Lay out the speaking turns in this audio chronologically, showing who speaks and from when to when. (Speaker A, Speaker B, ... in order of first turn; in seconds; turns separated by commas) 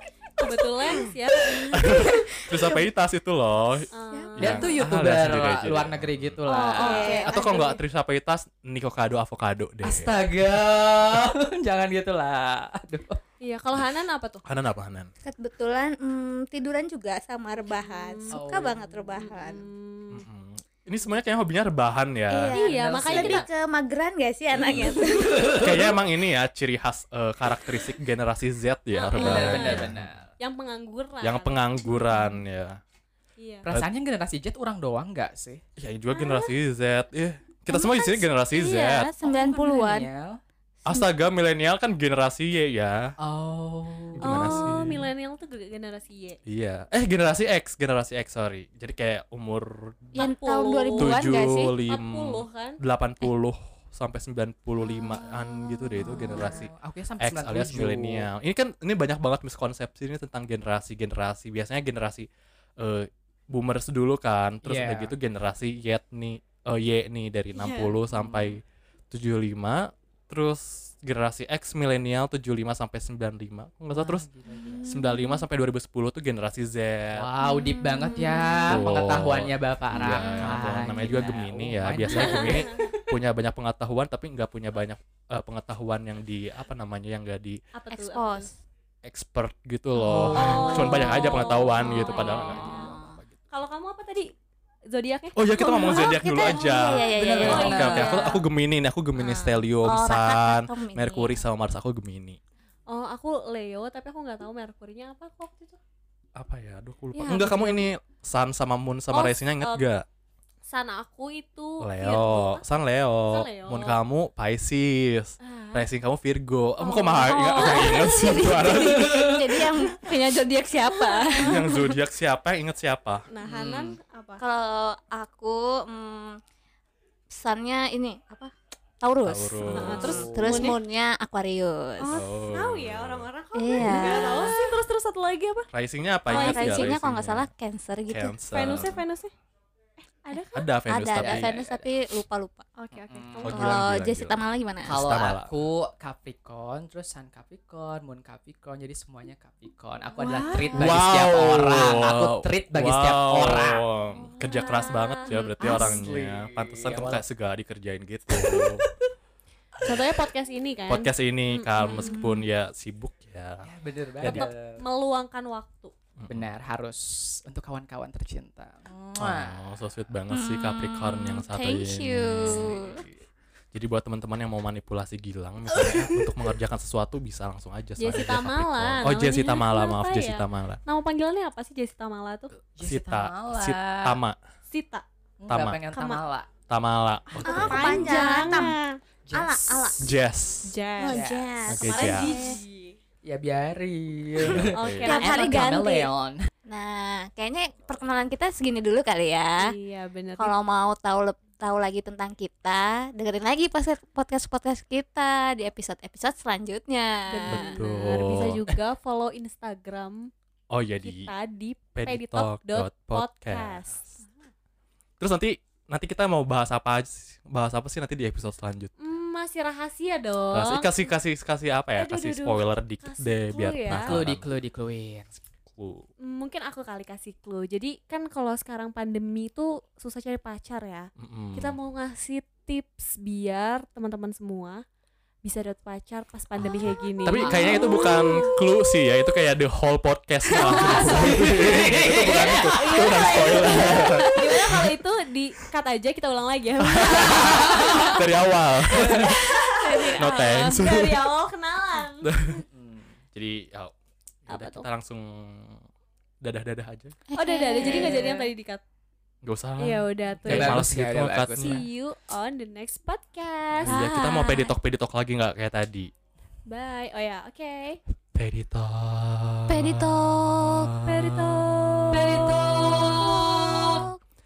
Speaker A: 0.4-1.7, Speaker B: 1.5-2.8, Speaker C: 1.7-6.5, Speaker A: 3.9-4.6, Speaker B: 4.1-4.4, Speaker D: 4.4-7.3, Speaker A: 6.5-7.7, Speaker B: 6.7-7.8, Speaker C: 7.2-10.4, Speaker D: 9.8-13.2, Speaker A: 13.4-14.4, Speaker C: 14.4-15.1, Speaker B: 15.2-19.7, Speaker A: 17.8-18.4, Speaker D: 18.3-19.0, Speaker A: 19.1-20.3, Speaker C: 20.1-22.6, Speaker B: 22.3-25.5, Speaker A: 22.5-23.5, Speaker D: 22.6-23.5, Speaker D: 24.5-26.0, Speaker C: 25.6-30.1, Speaker A: 28.9-32.3, Speaker D: 29.1-30.3, Speaker C: 31.2-32.8, Speaker A: 33.4-33.7, Speaker D: 33.6-35.6, Speaker C: 35.8-39.1, Speaker A: 36.1-36.5, Speaker B: 37.7-38.2, Speaker A: 38.0-39.3, Speaker B: 39.2-40.1, Speaker D: 39.2-40.4, Speaker C: 40.9-43.1, Speaker D: 43.2-44.8, Speaker C: 44.2-45.0, Speaker A: 44.2-46.4, Speaker C: 46.5-50.3, Speaker A: 50.1-51.2, Speaker B: 50.1-51.8, Speaker C: 50.9-62.3, Speaker A: 51.9-52.8, Speaker B: 55.1-56.5, Speaker D: 56.0-58.3, Speaker C: 62.8-74.3, Speaker D: 64.6-65.2, Speaker A: 67.5-68.0, Speaker D: 68.1-68.6, Speaker D: 73.9-74.9, Speaker B: 74.7-75.4, Speaker C: 74.8-77.3, Speaker D: 77.1-82.7, Speaker A: 77.4-78.4, Speaker B: 77.8-78.5, Speaker C: 78.6-87.6, Speaker A: 82.1-82.9, Speaker A: 87.7-88.5, Speaker B: 87.9-88.5, Speaker C: 89.0-93.3, Speaker B: 90.0-93.2, Speaker D: 90.1-91.0, Speaker A: 90.3-93.0, Speaker A: 93.5-94.3, Speaker A: 94.9-96.2, Speaker C: 95.4-102.4, Speaker B: 95.6-98.3, Speaker D: 97.2-98.4, Speaker A: 97.2-98.3, Speaker B: 99.2-101.5, Speaker A: 102.9-105.8, Speaker C: 106.4-110.0, Speaker A: 107.1-107.9, Speaker A: 109.1-109.9, Speaker A: 110.7-112.6, Speaker C: 111.8-119.3, Speaker A: 113.3-114.0, Speaker A: 115.4-115.9, Speaker A: 116.8-119.0, Speaker B: 117.4-122.0, Speaker D: 119.1-119.5, Speaker A: 120.9-121.7, Speaker C: 121.4-123.3, Speaker A: 123.3-124.4, Speaker D: 123.5-124.0, Speaker B: 124.4-126.4, Speaker B: 127.3-132.2, Speaker C: 129.2-130.7, Speaker A: 129.7-130.8, Speaker D: 129.9-130.7, Speaker A: 132.0-135.7, Speaker C: 132.1-133.3, Speaker B: 133.6-134.8, Speaker C: 133.8-134.1, Speaker C: 135.7-137.5, Speaker A: 136.3-136.9, Speaker B: 136.3-138.4, Speaker C: 138.1-139.0, Speaker A: 138.5-139.3, Speaker A: 140.2-140.7, Speaker C: 140.5-141.5, Speaker B: 140.9-142.7, Speaker D: 141.1-141.9, Speaker A: 142.8-143.9, Speaker D: 142.9-143.5, Speaker C: 143.4-145.6, Speaker B: 143.4-145.1, Speaker D: 144.9-153.9, Speaker A: 150.2-150.8, Speaker B: 150.2-150.6, Speaker C: 150.7-158.9, Speaker A: 154.4-155.9, Speaker B: 154.4-154.9, Speaker D: 155.6-157.2, Speaker D: 158.3-159.0, Speaker A: 159.8-162.3, Speaker C: 160.9-163.7, Speaker B: 161.9-162.4, Speaker D: 163.7-164.8, Speaker C: 164.2-164.5, Speaker A: 164.2-165.9, Speaker C: 166.2-166.5, Speaker D: 166.3-169.7, Speaker C: 169.2-172.9, Speaker B: 170.3-173.0, Speaker D: 172.5-173.0, Speaker C: 173.7-180.8, Speaker A: 178.0-182.5, Speaker D: 182.8-184.2, Speaker C: 182.8-184.4, Speaker A: 184.7-185.1, Speaker D: 185.4-186.5, Speaker C: 185.5-185.8, Speaker A: 185.9-186.2, Speaker C: 186.7-188.4, Speaker D: 187.4-188.6, Speaker B: 187.4-188.8, Speaker A: 187.4-189.0, Speaker D: 189.3-190.0, Speaker B: 189.3-190.1, Speaker C: 190.0-190.7, Speaker A: 190.7-193.0, Speaker B: 191.0-192.6, Speaker D: 191.0-191.5, Speaker C: 191.7-192.3, Speaker D: 192.1-192.4, Speaker D: 193.2-196.5, Speaker C: 194.4-195.2, Speaker A: 194.7-195.7, Speaker B: 195.0-196.1, Speaker B: 196.7-199.7, Speaker A: 199.6-200.6, Speaker B: 200.4-207.8, Speaker A: 207.3-210.3, Speaker C: 207.5-208.8, Speaker C: 210.7-211.3, Speaker A: 211.0-214.1, Speaker C: 211.9-213.8, Speaker C: 215.2-218.9, Speaker A: 219.0-221.2, Speaker C: 220.5-224.5, Speaker A: 221.9-224.2, Speaker D: 223.9-225.3, Speaker C: 225.7-226.1, Speaker A: 226.2-234.8, Speaker C: 231.2-231.8, Speaker A: 235.4-238.5, Speaker C: 237.2-244.9, Speaker B: 237.6-238.1, Speaker A: 240.6-241.3, Speaker D: 240.6-244.1, Speaker A: 242.5-248.2, Speaker C: 246.8-249.4, Speaker D: 247.3-248.1, Speaker D: 249.0-249.5, Speaker A: 249.0-252.3, Speaker C: 250.2-251.3, Speaker C: 252.2-252.6, Speaker D: 252.7-253.2, Speaker C: 253.3-253.9, Speaker C: 254.5-255.8, Speaker A: 254.5-254.9, Speaker C: 256.4-257.2, Speaker B: 257.3-258.5, Speaker A: 257.4-258.8, Speaker D: 257.8-258.2, Speaker C: 259.4-261.8, Speaker A: 259.8-260.8, Speaker D: 260.5-261.8, Speaker A: 261.6-264.1, Speaker C: 263.8-266.1, Speaker B: 263.9-264.8, Speaker A: 266.7-268.0, Speaker C: 268.3-272.1, Speaker B: 269.7-270.9, Speaker A: 271.1-272.8, Speaker D: 272.1-274.1, Speaker B: 272.8-274.2